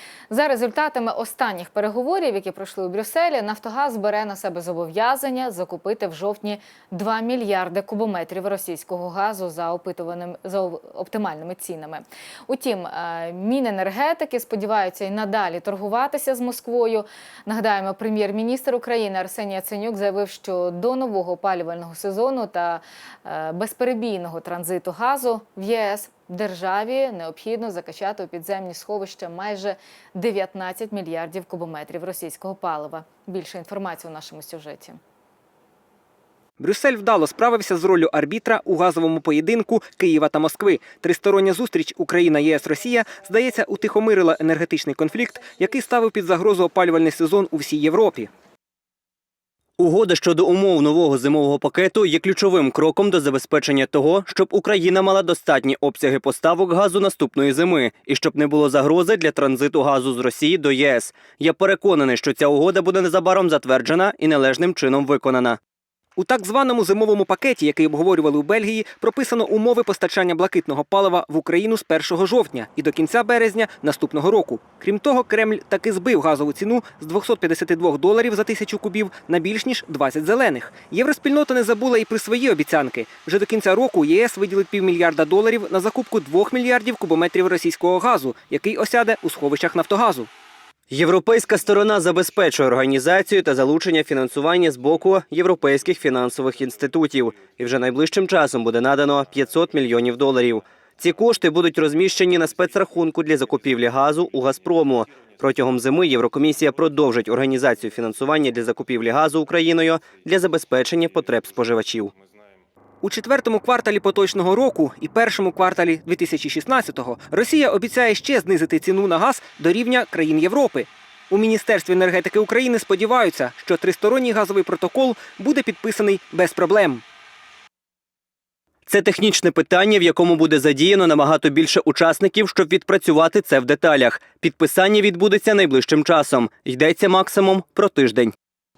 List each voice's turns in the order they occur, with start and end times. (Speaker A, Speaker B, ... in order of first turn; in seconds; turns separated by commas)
Speaker A: 0.3-35.0, Speaker B: 36.6-48.3, Speaker C: 49.8-65.6, Speaker B: 66.2-90.3, Speaker C: 90.9-112.1, Speaker B: 113.0-127.0, Speaker C: 128.9-138.3